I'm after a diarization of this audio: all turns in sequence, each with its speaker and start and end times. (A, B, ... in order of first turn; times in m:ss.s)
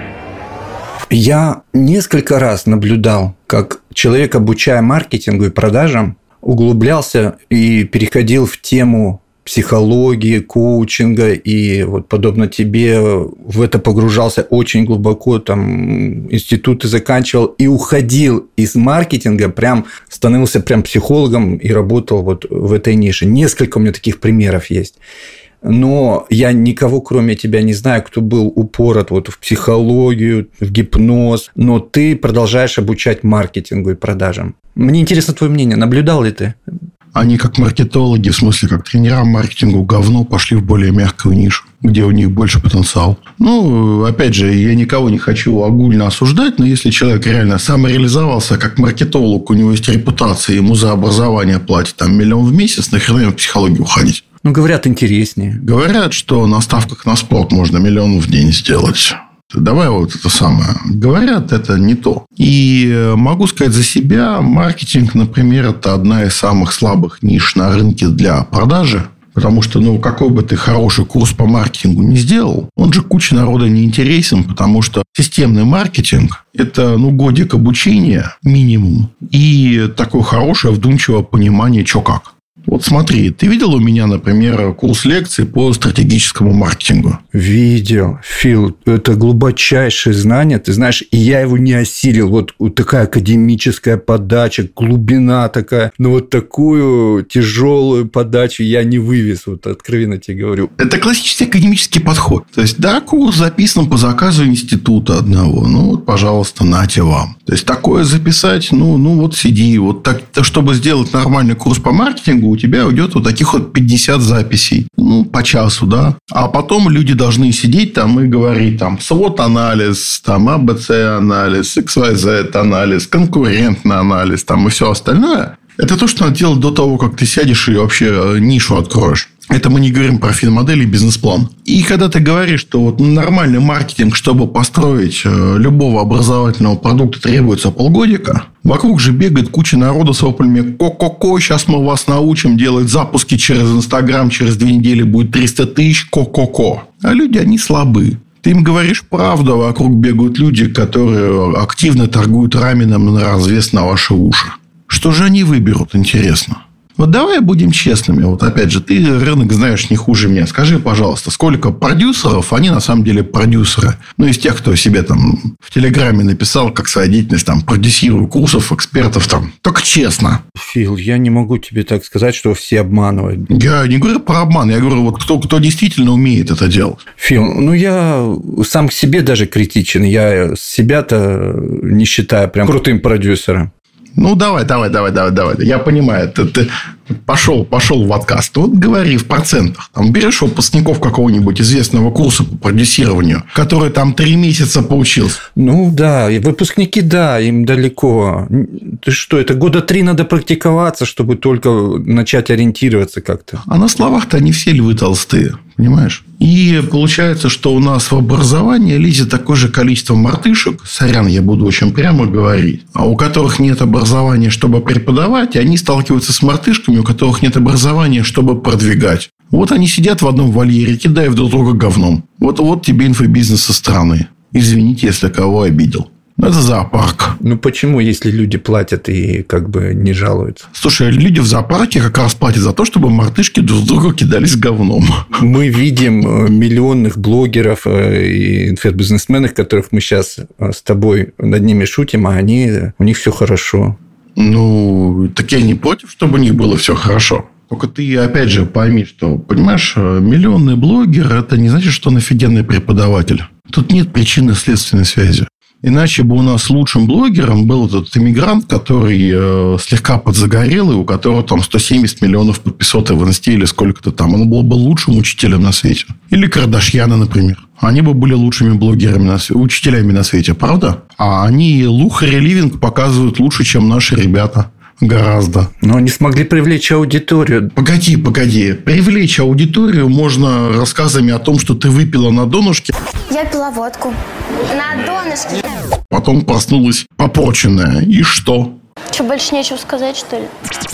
0:01.1-0:25.0 A
0:25.6-0:36.6 A
0:37.2-0:54.2 B
0:54.4-0:55.6 A
0:55.6-1:27.2 B
1:27.3-1:40.7 A
1:40.8-2:50.4 B
2:50.6-2:53.5 A
2:53.5-2:57.0 B
2:57.2-3:03.7 A
3:04.2-3:06.7 B
3:07.2-3:15.4 B
3:15.6-3:23.6 A
3:23.6-3:47.4 B
3:47.4-3:50.7 A
3:50.7-3:55.3 B
3:55.4-4:04.0 A
4:04.4-4:35.7 B
4:35.8-4:37.7 A
4:37.8-4:42.9 B
4:43.3-4:45.6 C
4:46.1-4:48.8 B
4:49.1-4:50.5 C